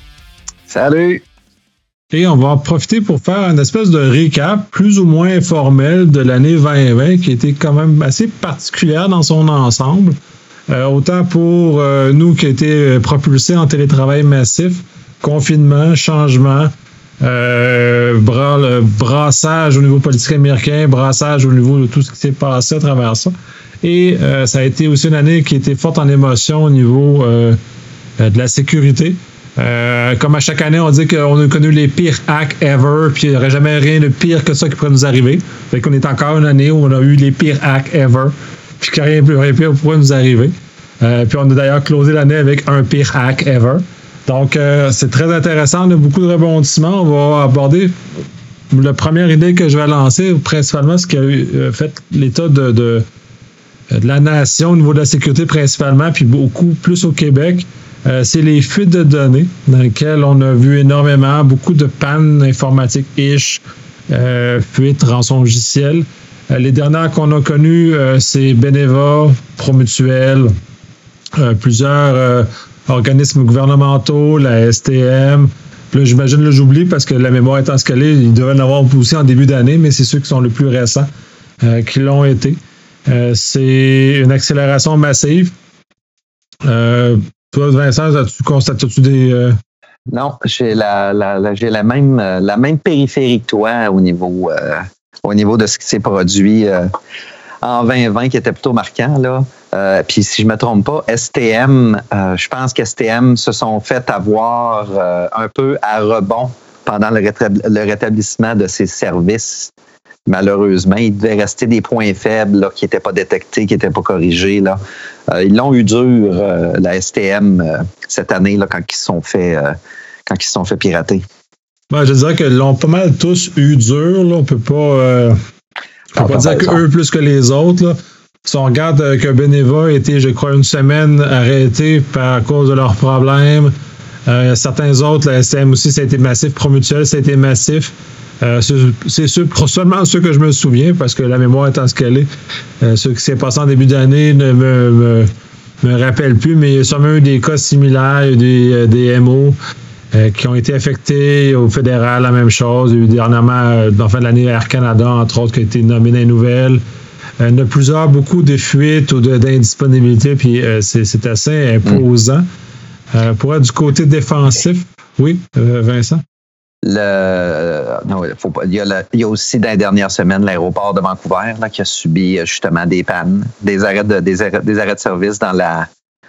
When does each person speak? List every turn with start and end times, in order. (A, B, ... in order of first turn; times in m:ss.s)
0:00.7-0:01.2 A
0:02.1-0:10.2 B
0:10.7-0:27.6 B
0:28.2-0:48.0 B
0:48.7-0:53.0 B
0:53.9-1:10.5 B
1:11.4-1:21.1 B
1:21.6-1:25.5 B
1:26.6-1:29.6 B
1:30.1-1:36.9 A
1:37.6-1:49.7 A
1:50.3-1:59.8 A
2:00.3-2:01.2 A
2:01.9-2:05.4 B
2:06.1-2:13.7 B
2:06.2-2:06.8 A
2:14.3-2:22.3 B
2:22.8-2:25.3 B
2:25.8-2:29.6 B
2:30.1-2:36.8 B
2:37.4-2:42.4 B
2:43.1-2:46.2 B
2:46.8-2:55.9 A